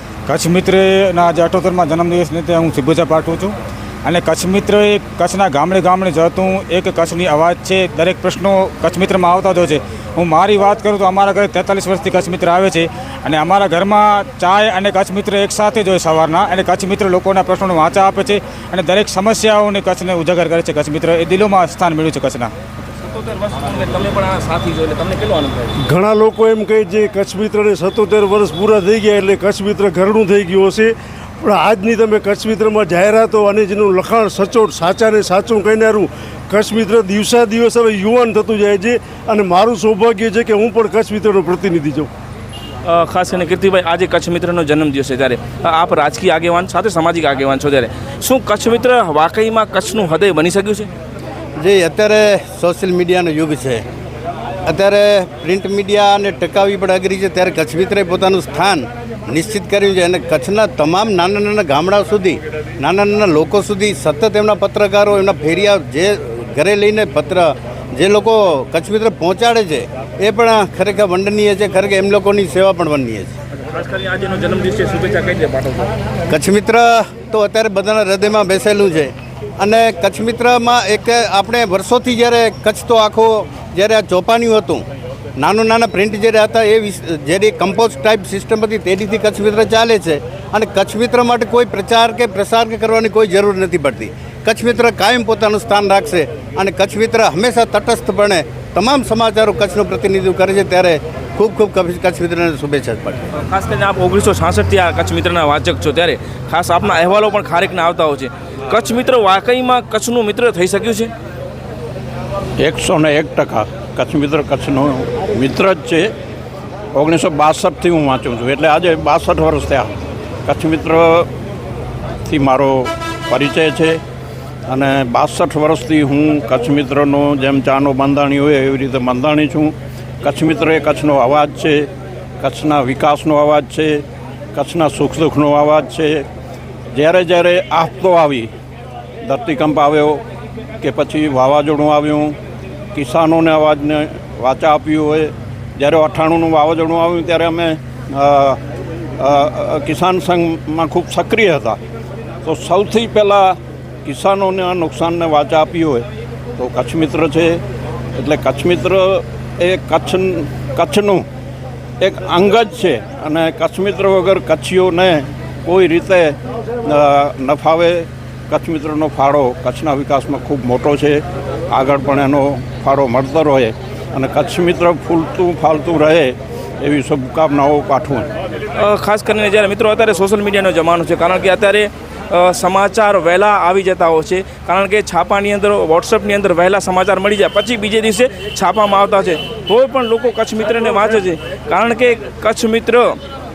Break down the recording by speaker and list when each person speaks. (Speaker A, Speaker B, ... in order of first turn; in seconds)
Speaker A: 0.3-22.5
Speaker B: 23.0-25.7, 42.8-50.9, 73.7-75.9, 103.3-111.1, 178.8-193.2
Speaker C: 25.8-42.1
Speaker D: 51.6-53.8, 54.6-73.3, 76.3-84.8, 85.4-103.2
Speaker E: 112.6-116.1, 116.9-119.9, 120.5-121.3, 122.2-124.0, 124.7-131.9, 132.4-134.0, 134.5-136.2, 136.9-138.5, 139.2-140.2, 140.8-142.4, 142.9-148.6, 149.2-151.8, 152.4-157.6, 158.1-161.2, 162.0-178.3